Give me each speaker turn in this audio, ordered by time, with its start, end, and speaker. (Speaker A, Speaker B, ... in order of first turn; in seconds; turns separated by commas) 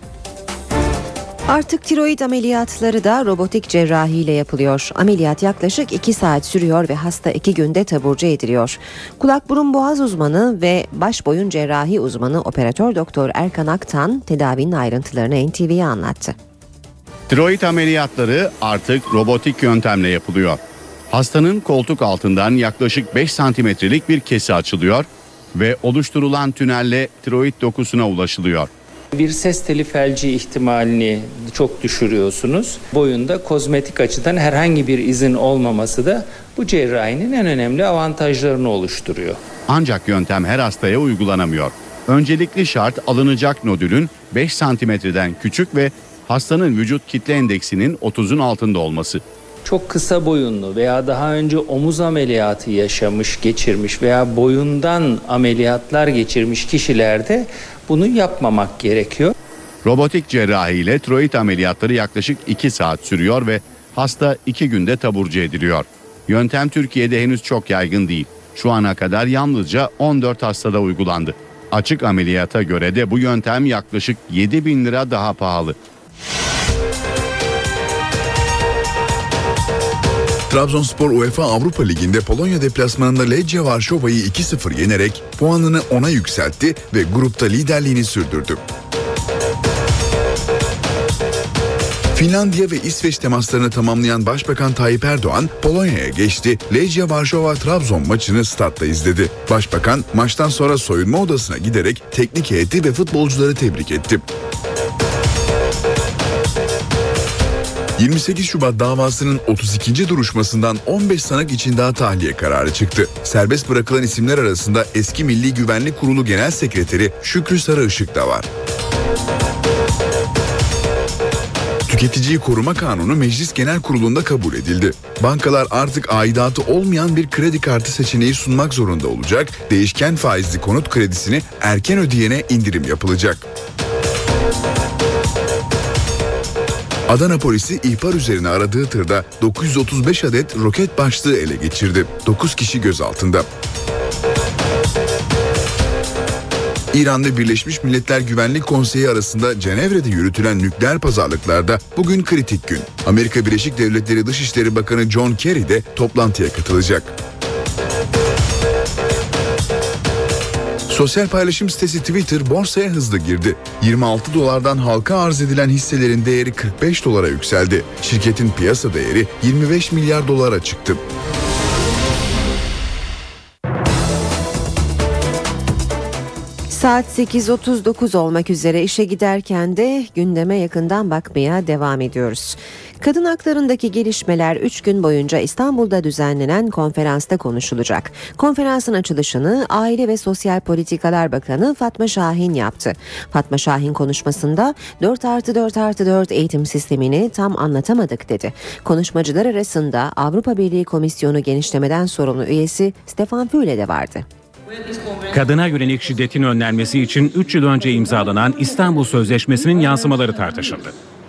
Speaker A: 1.5-16.3, Speaker B: 17.3-28.7, Speaker C: 29.1-39.4, Speaker B: 39.7-49.2, Speaker C: 49.6-59.3, Speaker B: 59.9-75.8, Speaker D: 80.5-88.6, Speaker D: 92.1-104.2, Speaker D: 108.0-118.5, Speaker D: 121.9-133.5, Speaker D: 137.1-143.5, Speaker D: 146.9-157.1, Speaker D: 160.9-171.0, Speaker A: 176.7-204.3, Speaker E: 205.3-210.9